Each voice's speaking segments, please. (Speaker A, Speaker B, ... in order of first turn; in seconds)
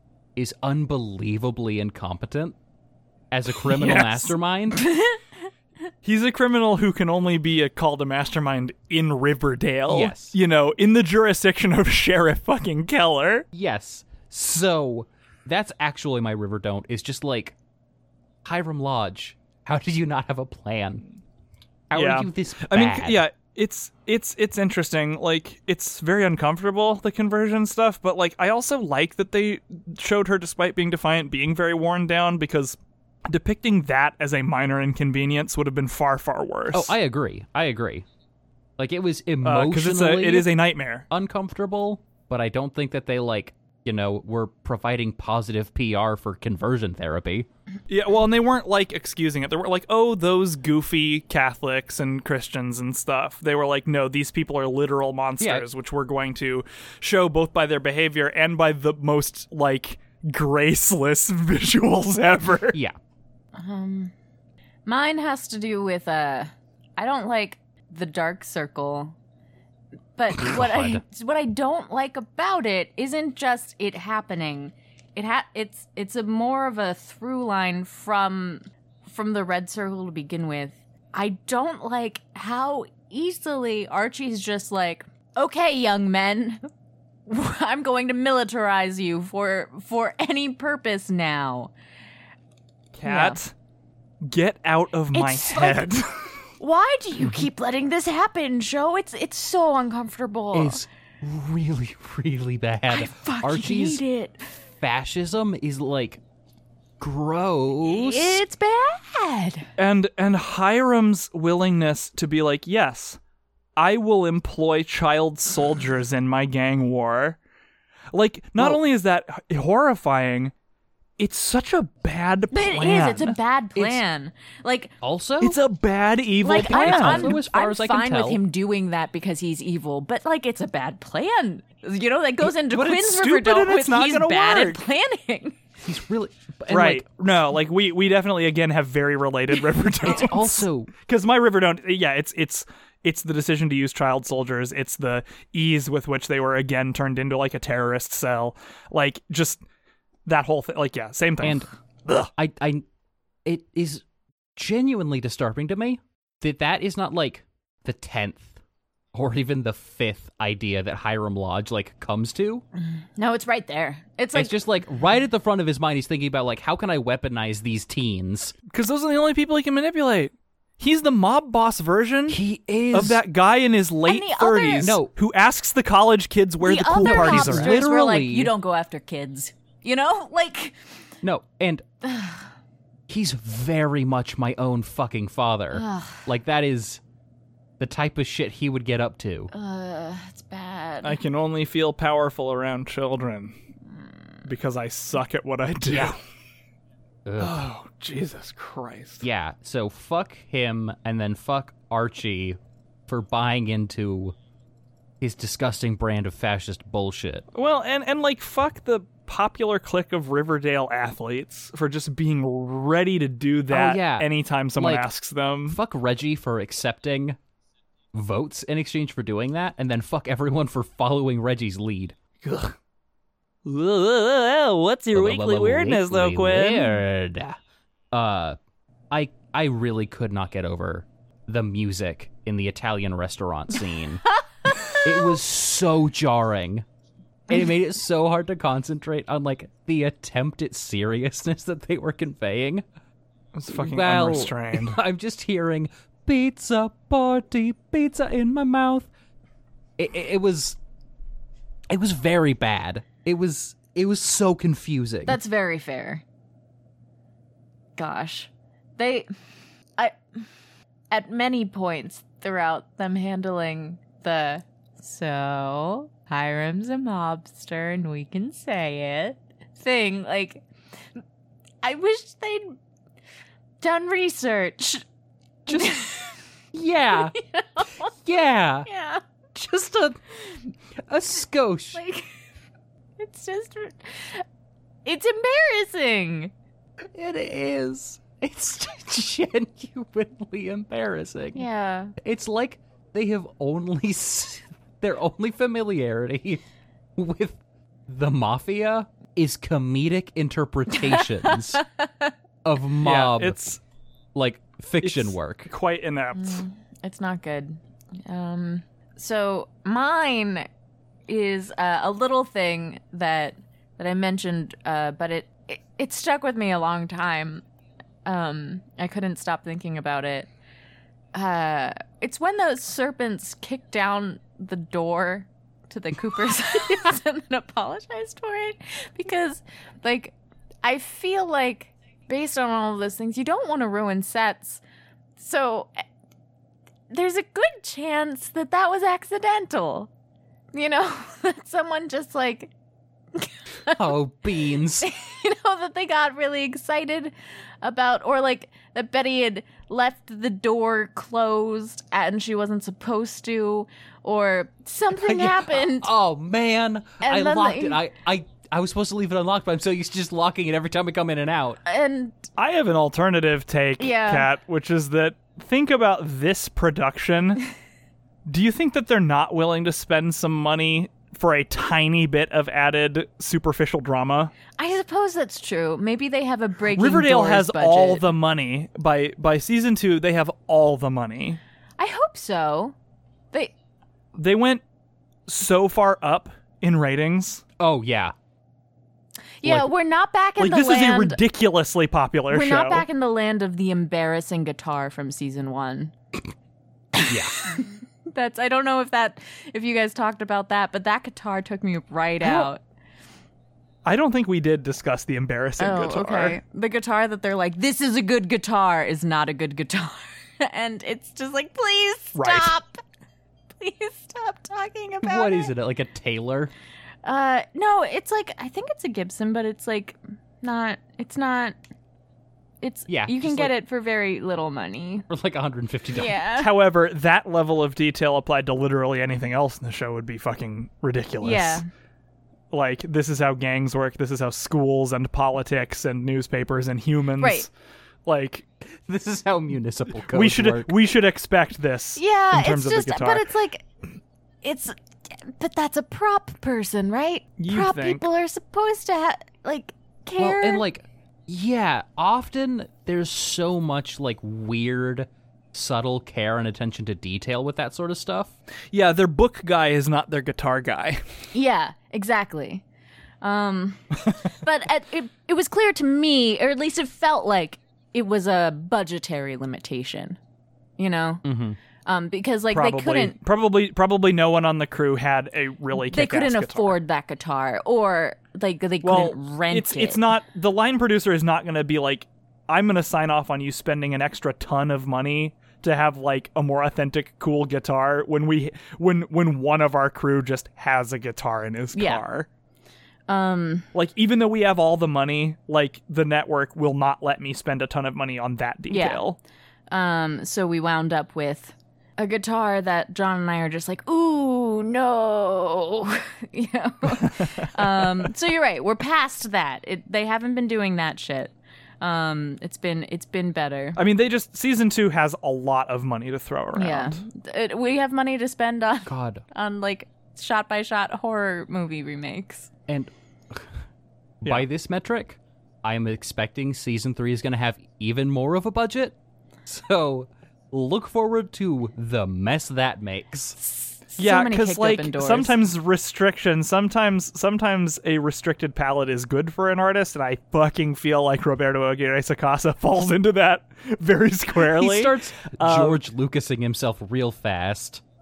Speaker A: 0.4-2.5, 3.3-4.9, 9.9-10.3, 13.5-17.6, 18.4-21.0, 21.9-23.2, 36.7-38.0, 38.8-40.5, 41.1-47.5, 55.4-55.6, 70.3-71.0, 100.5-104.0, 104.8-106.2, 107.0-108.4, 125.0-125.6, 126.4-128.4, 132.6-132.9, 135.8-137.1, 140.0-140.9, 151.4-152.8, 153.4-154.0, 154.6-158.6, 159.1-162.6, 164.3-168.5, 172.3-173.2, 174.8-175.1, 177.0-178.5, 181.2-181.8, 183.1-187.0, 187.8-189.5, 195.9-196.1, 197.2-197.6, 199.2-204.4, 205.2-207.4, 213.7-215.1, 215.7-217.4, 218.1-222.2, 225.1-227.6, 228.1-228.6, 229.1-234.3, 234.9-236.9, 237.5-242.8, 243.7-249.1, 250.0-250.8, 251.9-255.4, 275.6-276.1, 276.7-277.4, 278.1-278.9, 279.5-280.2, 280.9-282.0, 287.0-291.6, 292.2-296.6, 297.1-301.8, 302.6-303.6, 304.3-305.7, 343.9-345.1, 355.2-361.8, 387.8-388.3, 397.3-397.6, 415.2-416.7, 423.1-423.7, 425.3-426.4, 438.9-440.9, 450.4-458.5, 471.4-471.8, 519.1-519.4, 522.9-523.8, 524.4-533.6, 544.6-548.0
Speaker B: 3.6-4.3, 6.0-13.4, 21.9-36.9, 39.4-41.0, 47.9-62.8, 92.9-93.5, 94.2-96.4, 109.8-113.2, 113.8-117.4, 118.1-120.5, 121.2-124.0, 125.4-127.4, 132.8-134.9, 136.7-149.6, 150.2-151.7, 168.7-172.4, 172.9-177.8, 191.0-193.6, 194.4-196.2, 197.4-199.2, 207.5-215.8, 222.4-222.8, 223.7-227.0, 243.5-245.0, 303.0-303.8, 305.0-306.6, 362.6-367.6, 368.5-374.5, 376.9-381.6, 384.3-384.8, 385.5-387.6, 390.6-393.0, 402.4-402.7, 404.1-406.6, 412.3-412.7, 426.6-431.8, 432.7-437.7, 438.2-438.6, 440.3-443.5, 447.6-448.2, 458.9-461.2, 472.7-477.0, 479.0-492.5, 493.9-499.4, 507.1-508.3, 514.0-517.2, 534.2-546.0
Speaker C: 4.8-5.2, 63.5-64.1, 64.9-69.1, 70.2-86.6, 87.2-91.7, 93.0-93.4, 95.1-96.0, 96.6-100.8, 102.9-104.6, 107.8-109.7, 122.5-124.9, 126.4-135.6, 162.8-164.6, 174.1-174.9, 176.6-180.8, 182.0-182.5, 185.7-186.2, 189.5-191.2, 234.7-235.0, 255.2-256.2, 258.0-259.3, 260.0-260.4, 261.1-270.6, 271.8-272.8, 273.8-275.0, 275.7-276.4, 277.1-278.1, 278.8-279.2, 281.9-282.3, 283.2-284.4, 285.0-286.5, 291.5-292.1, 300.9-302.3, 306.3-310.7, 311.3-317.6, 318.2-320.5, 321.3-334.8, 335.4-336.0, 337.1-340.1, 340.7-342.7, 343.4-344.0, 345.0-356.1, 357.2-358.0, 361.9-362.4, 364.0-364.5, 374.8-378.3, 382.0-382.9, 389.6-391.4, 392.5-396.1, 397.1-402.8, 405.8-413.0, 413.8-415.7, 417.2-421.8, 422.8-425.2, 426.1-426.7, 431.4-431.9, 437.4-437.6, 442.1-443.9, 444.6-450.8, 461.5-462.8, 463.4-470.4, 471.0-471.4, 472.0-473.4, 475.9-480.3, 491.9-492.2, 493.3-493.9, 498.9-499.2, 499.9-514.0, 516.7-522.7, 533.6-535.5